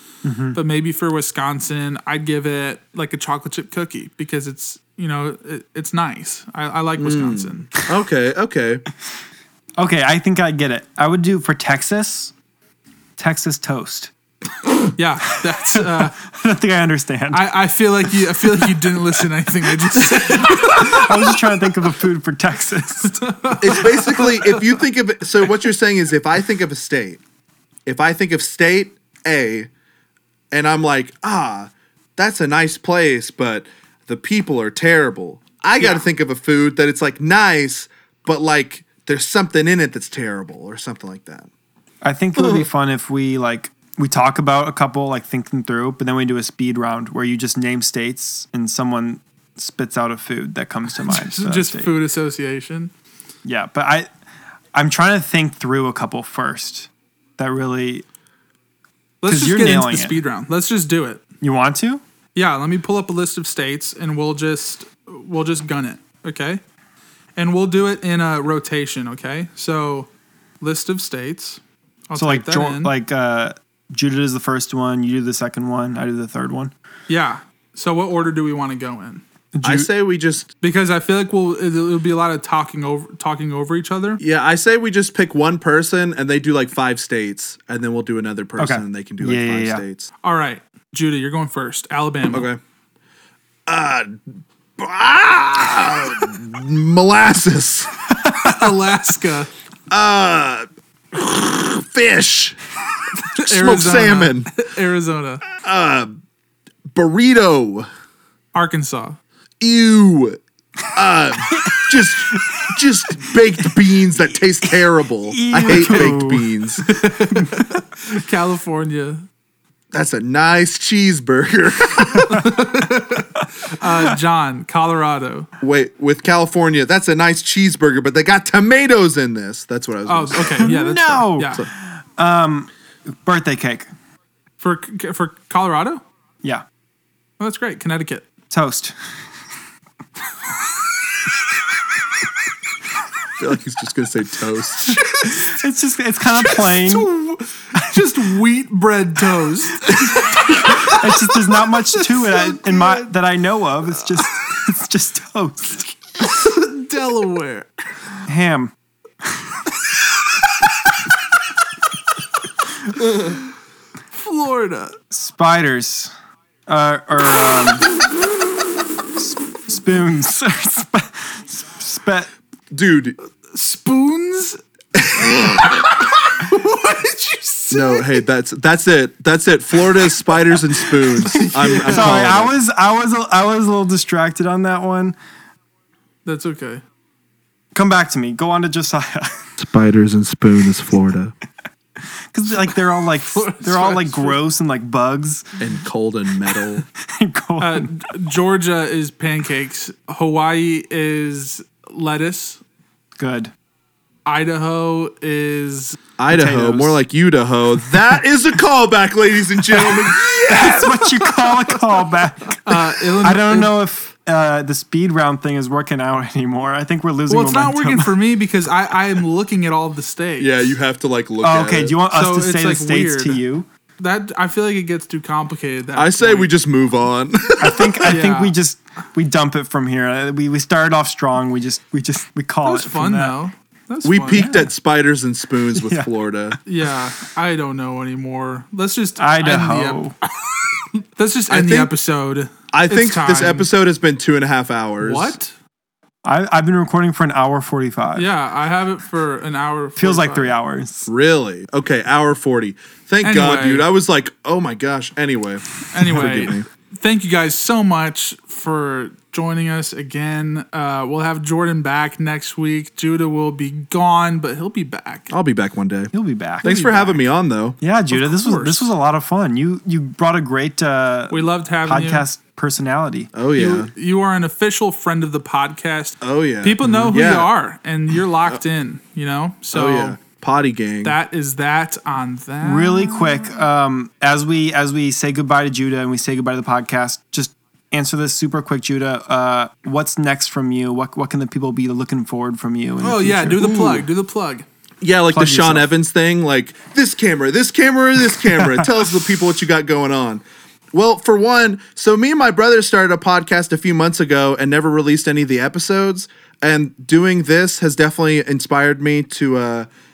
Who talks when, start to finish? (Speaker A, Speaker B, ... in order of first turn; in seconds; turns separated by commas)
Speaker A: 0.2-0.6, Speaker B: 0.5-7.7, Speaker C: 7.0-8.8, Speaker A: 9.8-12.3, Speaker A: 13.2-14.1, Speaker B: 14.9-16.1, Speaker A: 15.5-17.5, Speaker B: 17.3-21.3, Speaker A: 18.6-18.9, Speaker A: 20.0-23.8, Speaker B: 23.2-24.8, Speaker C: 23.6-27.2, Speaker C: 27.9-29.7, Speaker C: 30.5-41.5, Speaker B: 35.8-36.0, Speaker A: 42.0-52.0, Speaker C: 42.4-42.6, Speaker B: 50.9-52.9, Speaker A: 53.4-54.1, Speaker A: 54.7-58.0, Speaker B: 59.2-61.2, Speaker A: 59.2-60.2, Speaker A: 61.4-62.0, Speaker B: 62.3-66.6, Speaker B: 67.4-70.1, Speaker B: 70.6-72.9, Speaker A: 72.1-76.7, Speaker B: 77.1-79.2, Speaker A: 79.5-79.9, Speaker C: 79.6-80.5, Speaker B: 80.6-84.2, Speaker C: 84.2-90.1, Speaker A: 88.6-89.8, Speaker B: 90.2-92.5, Speaker C: 92.3-92.6, Speaker C: 93.7-94.2, Speaker C: 94.8-97.9, Speaker A: 98.2-98.7, Speaker B: 98.3-99.5, Speaker C: 99.9-102.6, Speaker B: 103.2-105.4, Speaker C: 103.3-104.5, Speaker C: 105.6-106.2, Speaker C: 106.9-107.9, Speaker B: 108.5-109.2, Speaker C: 109.6-110.4, Speaker C: 110.9-116.9, Speaker A: 111.5-112.8, Speaker A: 115.2-116.5, Speaker B: 115.7-116.1, Speaker B: 116.8-119.2, Speaker C: 119.9-122.4, Speaker B: 122.1-125.5, Speaker C: 125.6-130.7, Speaker B: 130.1-131.6, Speaker A: 130.6-132.7, Speaker A: 133.2-133.9, Speaker B: 134.6-136.0, Speaker B: 137.4-138.3, Speaker A: 138.5-138.9, Speaker C: 143.4-145.0, Speaker B: 144.8-145.5, Speaker A: 145.2-147.1, Speaker B: 146.3-153.1, Speaker A: 150.6-155.9, Speaker B: 156.2-157.7, Speaker A: 158.2-158.7, Speaker B: 160.2-160.5, Speaker B: 164.2-164.9, Speaker A: 165.1-166.1, Speaker A: 166.7-167.9, Speaker A: 169.2-172.3, Speaker C: 172.7-173.2, Speaker B: 173.5-174.6, Speaker C: 174.9-175.8, Speaker B: 175.1-178.2, Speaker C: 177.7-182.5, Speaker B: 181.2-182.2, Speaker A: 181.4-185.2, Speaker B: 186.2-186.8, Speaker A: 187.7-189.5, Speaker C: 189.6-191.3, Speaker A: 192.3-195.5, Speaker B: 193.2-194.4, Speaker C: 195.6-196.8, Speaker A: 196.5-197.9, Speaker B: 197.6-202.6, Speaker A: 203.2-203.5, Speaker B: 204.2-206.0, Speaker C: 206.2-210.9, Speaker A: 206.3-207.0, Speaker A: 209.7-218.1, Speaker B: 209.9-211.8, Speaker B: 212.6-213.7, Speaker B: 217.3-220.7, Speaker C: 220.4-221.9, Speaker A: 221.4-223.7, Speaker B: 222.1-223.4, Speaker B: 224.0-226.5, Speaker C: 226.0-228.1, Speaker A: 227.6-233.3, Speaker B: 228.1-228.6, Speaker B: 232.6-234.4, Speaker C: 234.0-236.6, Speaker A: 234.3-234.7, Speaker A: 235.7-236.1, Speaker B: 236.6-240.0, Speaker A: 239.2-240.1, Speaker B: 241.2-243.7, Speaker C: 241.5-241.9, Speaker C: 242.7-245.3, Speaker B: 245.0-245.5, Speaker A: 246.2-248.3, Speaker B: 248.2-250.5, Speaker A: 250.0-251.1, Speaker C: 251.1-256.6, Speaker B: 253.2-253.8, Speaker B: 255.9-265.3, Speaker C: 265.3-267.8, Speaker A: 266.1-267.2, Speaker A: 267.8-273.3, Speaker B: 268.1-268.9, Speaker B: 271.3-272.3, Speaker C: 273.3-273.9, Speaker B: 273.5-280.2, Speaker C: 276.2-277.5, Speaker A: 276.8-277.2, Speaker C: 279.7-281.2, Speaker B: 281.0-283.5, Speaker A: 282.6-294.1, Speaker B: 293.0-294.6, Speaker C: 295.0-309.9, Speaker A: 295.3-295.9